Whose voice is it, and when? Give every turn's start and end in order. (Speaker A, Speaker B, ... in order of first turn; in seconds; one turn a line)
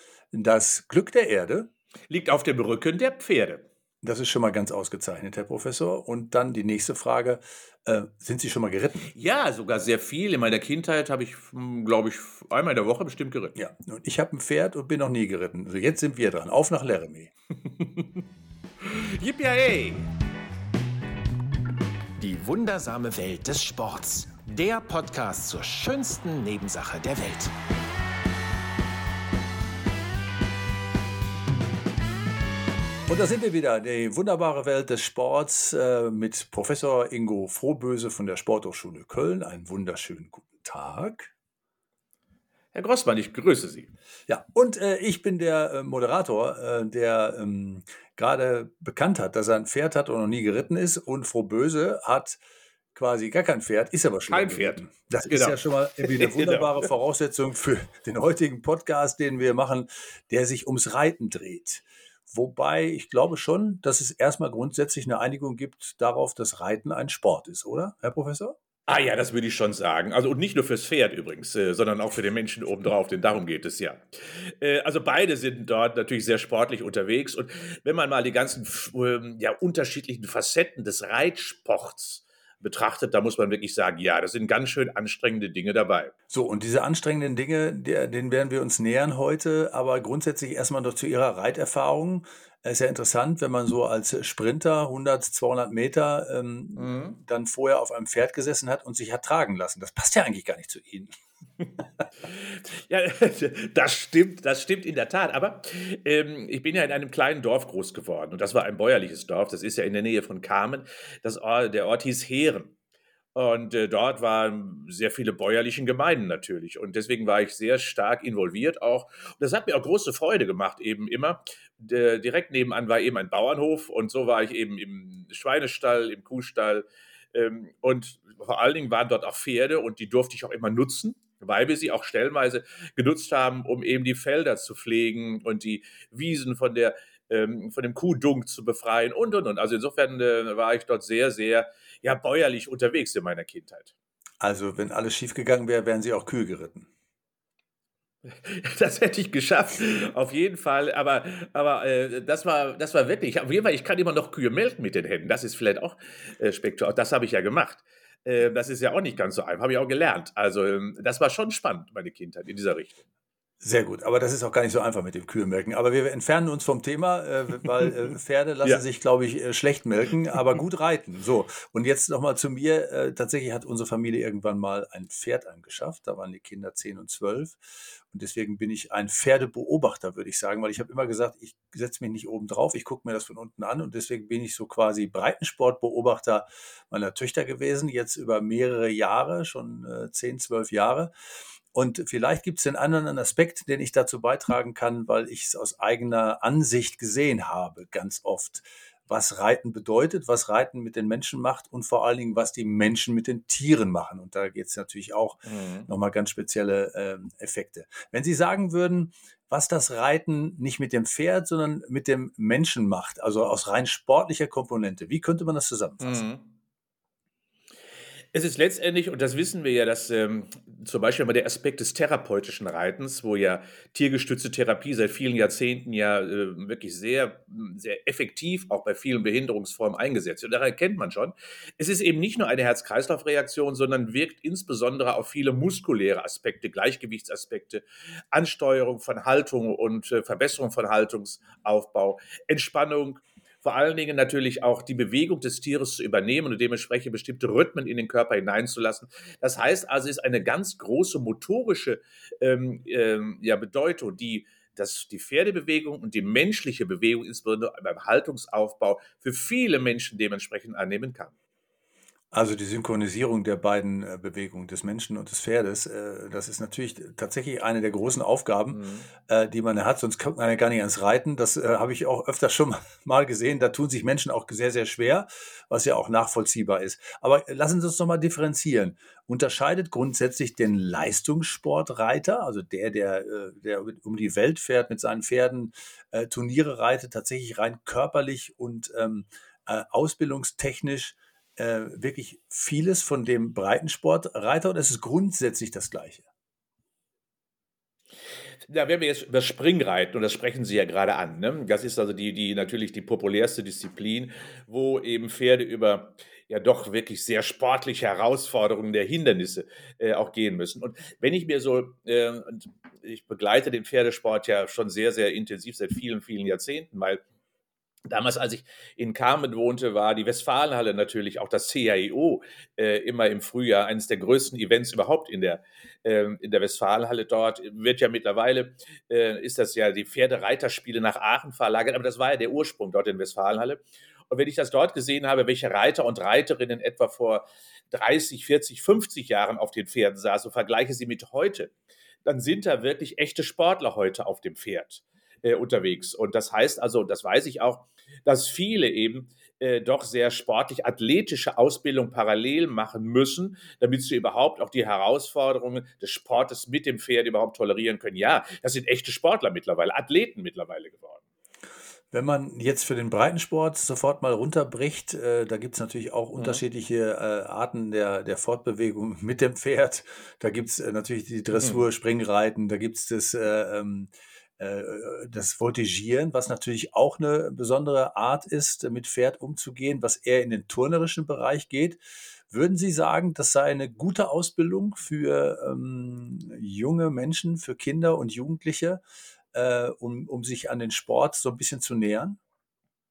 Speaker A: 0.3-1.7
Speaker B: 2.1-3.7
Speaker A: 4.0-9.1
Speaker B: 9.1-13.6
Speaker A: 13.6-17.3
Speaker B: 17.8-18.2
Speaker B: 18.8-20.1
Speaker C: 22.2-27.5
Speaker A: 33.1-41.3
Speaker B: 42.7-43.9
Speaker A: 44.3-52.4
Speaker A: 53.0-68.6
Speaker B: 54.3-56.9
Speaker B: 68.9-86.1
Speaker A: 86.3-101.1
Speaker B: 96.8-97.2
Speaker B: 102.2-112.8
Speaker B: 113.3-143.9
Speaker A: 144.4-146.9
Speaker B: 148.2-163.0
Speaker A: 163.6-191.1
Speaker A: 191.7-216.2
Speaker B: 205.5-205.9
Speaker B: 216.0-216.5
Speaker B: 218.3-261.4
Speaker A: 262.3-296.2
Speaker B: 268.7-269.1
Speaker B: 298.7-317.2
Speaker B: 318.1-341.7
Speaker B: 342.2-361.2
Speaker A: 362.1-389.0
Speaker B: 366.4-366.6
Speaker A: 389.5-392.4